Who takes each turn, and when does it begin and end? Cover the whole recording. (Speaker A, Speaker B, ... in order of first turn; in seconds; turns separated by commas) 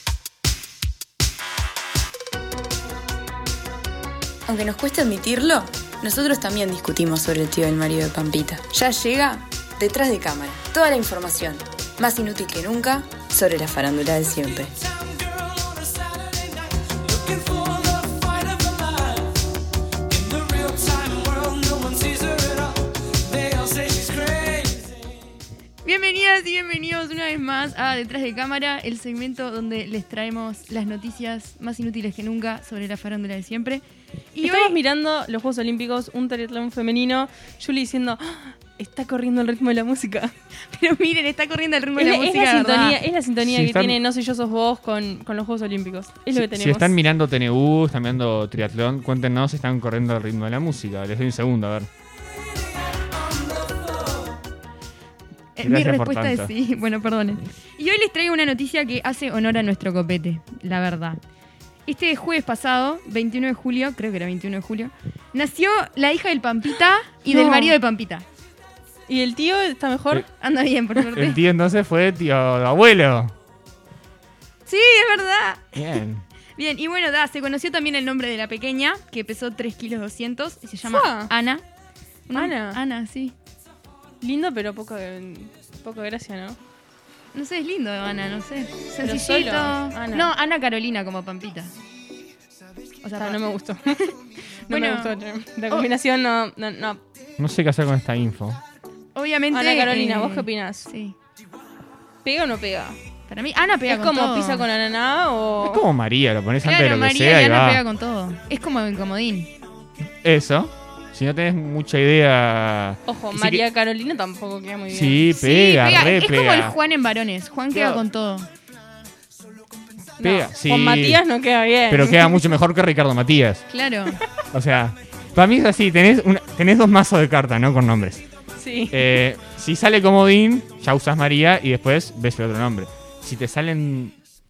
Speaker A: 4.5-14.7, Speaker B: 14.5-19.4, Speaker B: 20.1-25.1, Speaker C: 25.9-33.8, Speaker C: 34.3-34.8, Speaker D: 34.4-40.3, Speaker C: 40.7-43.0, Speaker D: 42.0-47.0, Speaker E: 43.4-44.0, Speaker E: 46.3-51.9, Speaker B: 53.4-54.1, Speaker C: 55.6-61.2, Speaker E: 55.6-56.5, Speaker C: 61.9-68.2, Speaker D: 67.3-67.8, Speaker D: 69.1-70.2, Speaker C: 70.4-71.4, Speaker E: 71.1-73.3, Speaker C: 74.7-76.0, Speaker E: 75.8-76.2, Speaker C: 76.6-81.6, Speaker D: 80.9-81.3, Speaker C: 82.3-83.3, Speaker D: 82.3-82.8, Speaker D: 84.2-86.6, Speaker C: 87.3-91.7, Speaker D: 89.0-90.3, Speaker C: 93.0-93.4, Speaker D: 93.2-94.1, Speaker C: 94.7-95.2, Speaker D: 94.7-97.0, Speaker E: 97.4-98.6, Speaker C: 99.1-101.1, Speaker D: 99.5-100.9, Speaker D: 102.2-103.0, Speaker C: 103.3-104.7, Speaker D: 103.9-105.8, Speaker E: 105.6-107.8, Speaker C: 106.6-109.5, Speaker E: 110.2-113.6, Speaker D: 113.1-115.3, Speaker E: 114.9-116.8, Speaker C: 115.3-118.5, Speaker E: 117.7-118.0, Speaker D: 120.2-122.5, Speaker E: 120.2-121.2, Speaker E: 121.9-123.6, Speaker C: 123.7-124.2, Speaker E: 124.5-128.2, Speaker D: 128.6-129.2, Speaker E: 128.9-134.1